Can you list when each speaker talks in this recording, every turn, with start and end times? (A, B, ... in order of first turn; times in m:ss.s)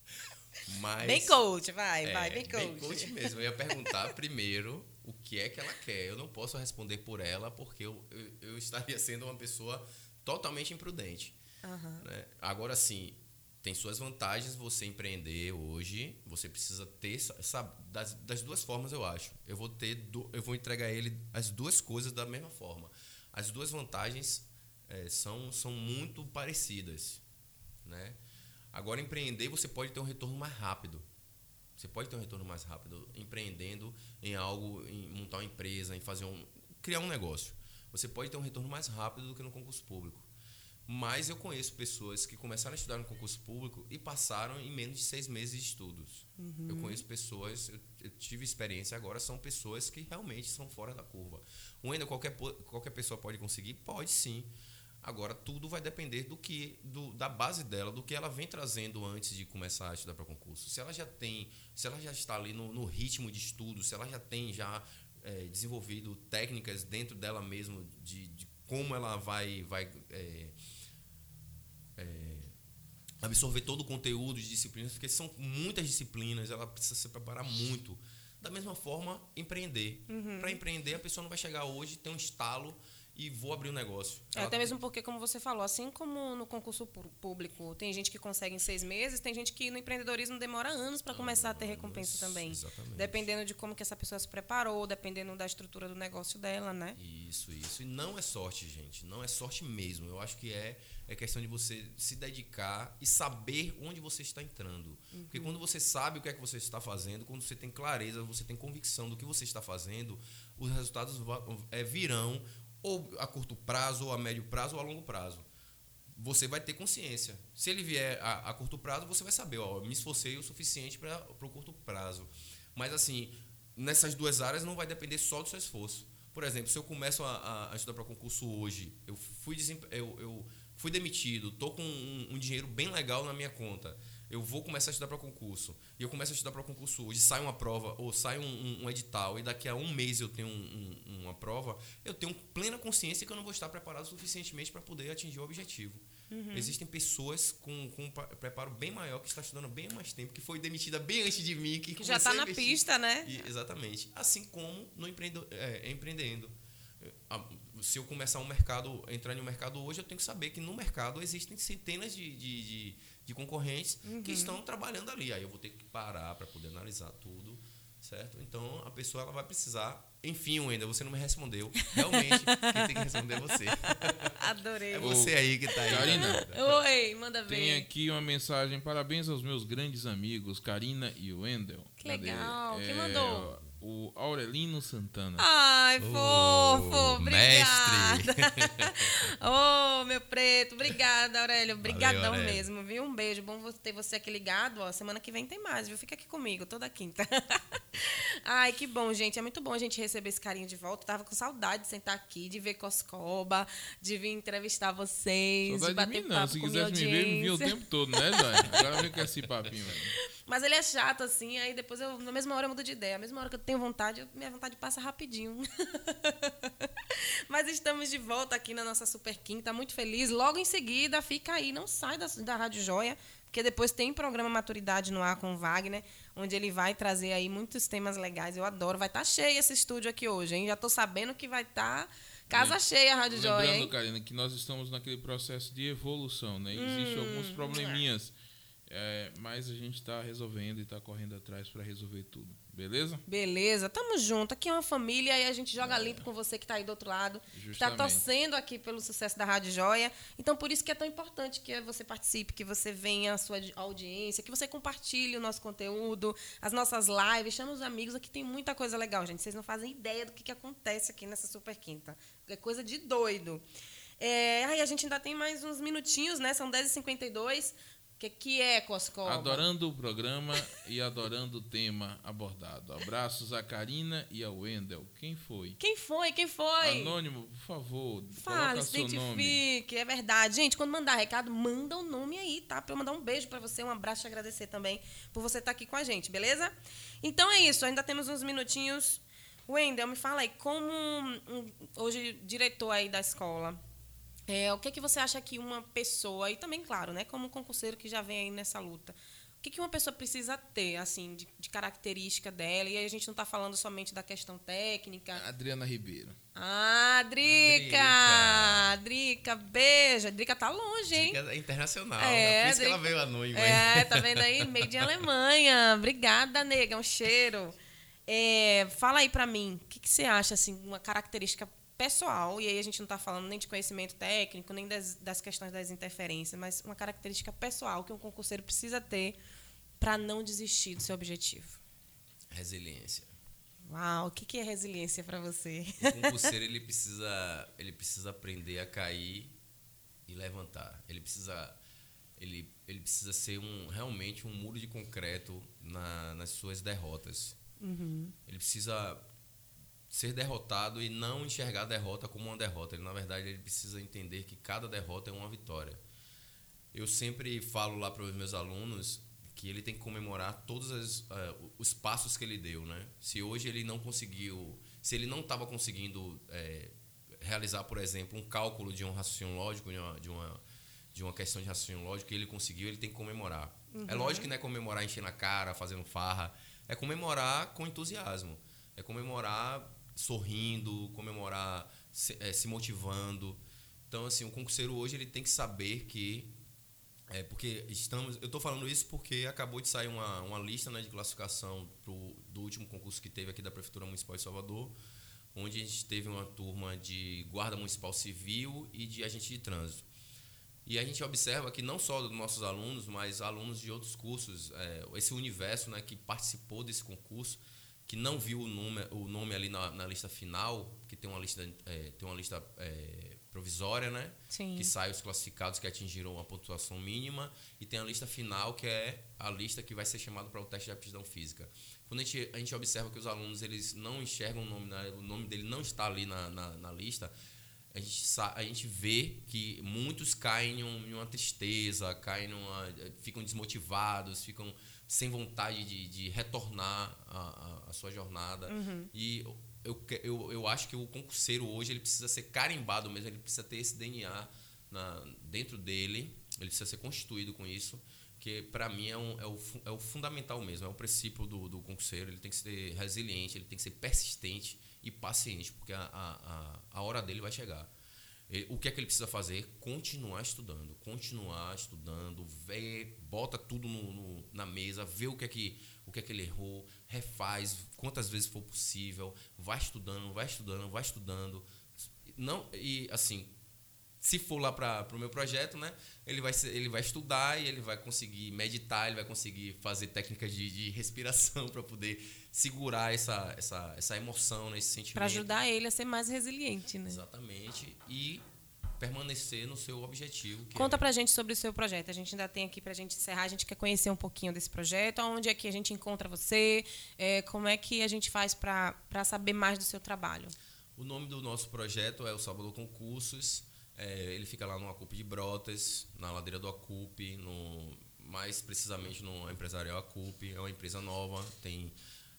0:00.6-0:01.4 A
0:01.0-0:03.3 B
0:02.0-0:11.4 A
0:11.6-0:12.0 B
0:12.0-0:27.2 A
0:27.8-0:28.2 A
0:28.7-0:31.1 A
0:31.8-0:40.3 A
0:40.9-0:54.5 A
0:46.4-0:47.0 B
0:55.0-1:10.5 A
1:12.0-1:12.5 A
1:13.2-1:24.8 A
1:20.1-1:20.6 B
1:24.3-1:37.0 B
1:31.1-1:33.2 A
1:37.0-1:55.4 A
1:45.1-1:45.5 B
1:56.1-2:54.4 A
2:26.3-2:26.8 B
2:32.0-2:33.5 B
2:44.0-2:44.6 B
2:52.0-2:53.6 B
2:54.3-2:57.9 B
2:54.9-2:56.6 A
2:55.0-2:56.4 C
2:57.5-3:05.4 C
3:02.0-3:03.5 B
3:05.4-3:28.8 B
3:06.0-3:09.2 A
3:11.8-3:12.6 A
3:25.6-3:30.1 C
3:30.4-3:53.9 B
3:52.5-3:52.8 C
3:53.3-3:58.3 C
3:56.7-3:58.0 B
3:58.9-4:03.2 C
4:03.3-4:23.6 B
4:05.8-4:06.3 C
4:07.5-4:08.2 C
4:24.2-4:29.6 B
4:29.2-4:35.8 C
4:35.8-4:37.2 B
4:36.8-4:39.6 C
4:38.3-4:53.8 B
4:54.5-5:05.4 B
5:05.3-5:06.4 C
5:06.5-5:11.4 B
5:07.4-5:08.9 A
5:11.1-5:14.8 A
5:12.2-5:17.7 B
5:18.3-5:29.4 B
5:30.0-5:31.8 B
5:32.5-5:33.3 A
5:33.9-5:36.5 B
5:36.0-5:39.5 A
5:40.3-5:41.8 A
5:42.4-5:47.6 A
5:47.8-5:48.3 B
5:48.5-5:49.2 A
5:50.1-5:56.0 A
5:56.9-6:10.6 A
6:11.1-6:26.5 A
6:13.9-6:14.5 B
6:27.3-6:34.9 A
6:35.5-6:40.0 A
6:40.8-7:07.3 A
6:54.5-6:54.9 B
7:07.9-7:37.9 A
7:18.7-7:19.1 B
7:38.5-7:53.5 A
7:54.2-8:05.5 A
8:05.1-8:07.2 B
8:07.1-8:08.4 A
8:09.0-8:11.0 A
8:10.7-8:20.5 B
8:21.0-8:31.9 A